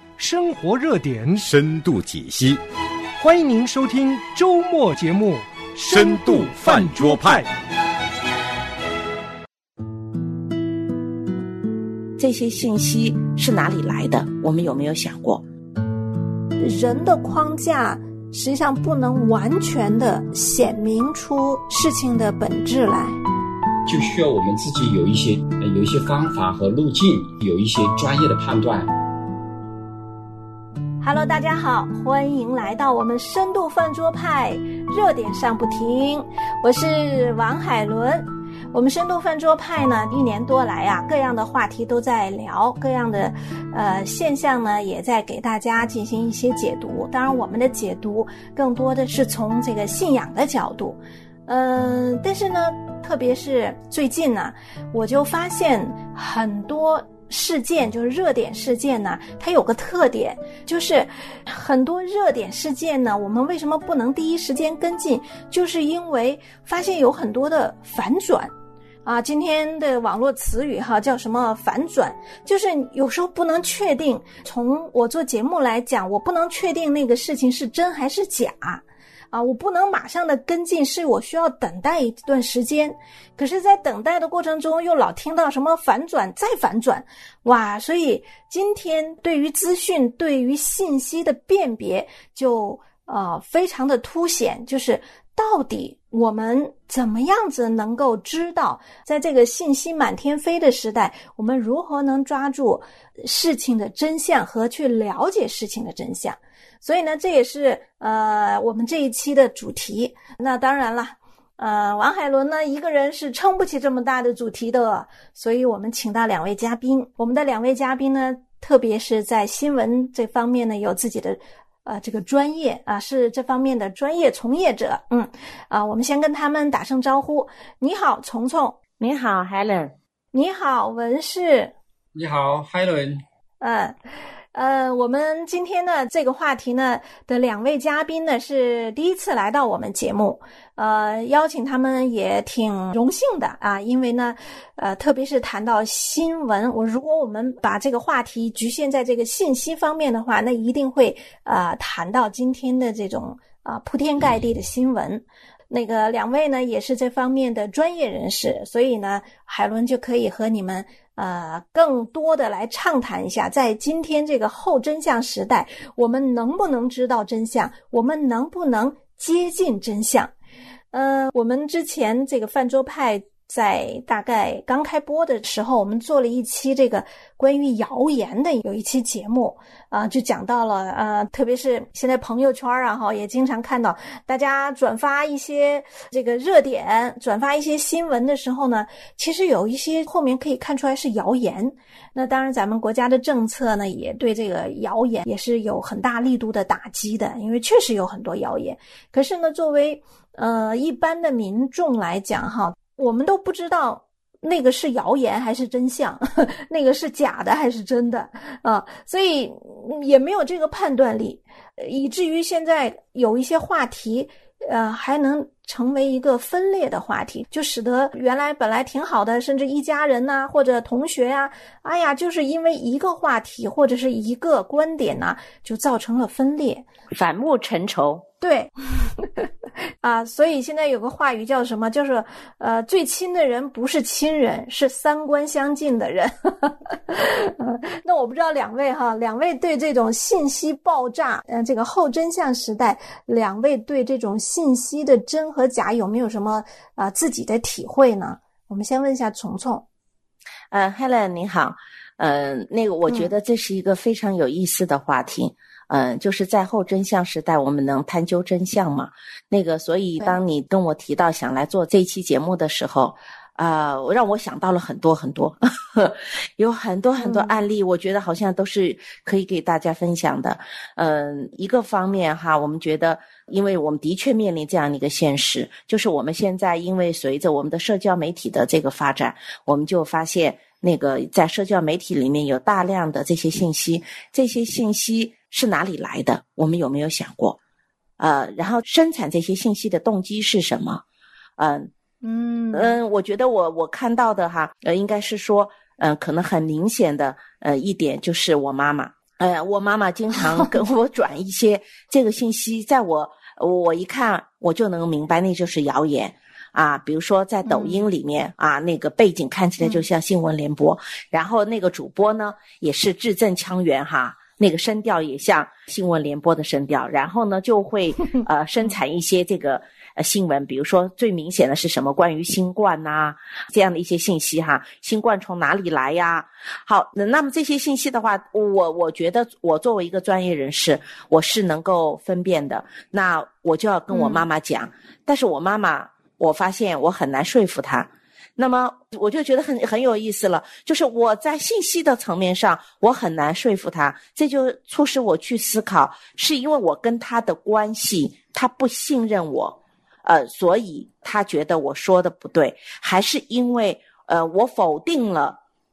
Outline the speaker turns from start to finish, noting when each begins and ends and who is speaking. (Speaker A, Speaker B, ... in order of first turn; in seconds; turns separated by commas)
Speaker A: 0.2-1.5, Speaker B: 1.4-2.6, Speaker A: 3.2-7.5, Speaker B: 5.9-7.4, Speaker C: 12.2-15.4, Speaker D: 16.6-23.2, Speaker E: 23.8-28.9, Speaker D: 31.0-68.5, Speaker D: 69.0-128.8, Speaker C: 129.0-129.9, Speaker D: 130.3-131.7, Speaker E: 132.1-133.2, Speaker D: 133.6-133.9, Speaker D: 134.5-170.3, Speaker D: 170.9-226.8, Speaker C: 227.1-228.2, Speaker D: 228.4-229.5, Speaker D: 230.0-249.8, Speaker C: 250.7-287.6, Speaker D: 267.2-267.6, Speaker C: 288.2-291.0, Speaker C: 291.6-291.9, Speaker D: 292.2-293.0, Speaker C: 292.7-355.6, Speaker D: 307.6-308.0, Speaker D: 334.1-334.4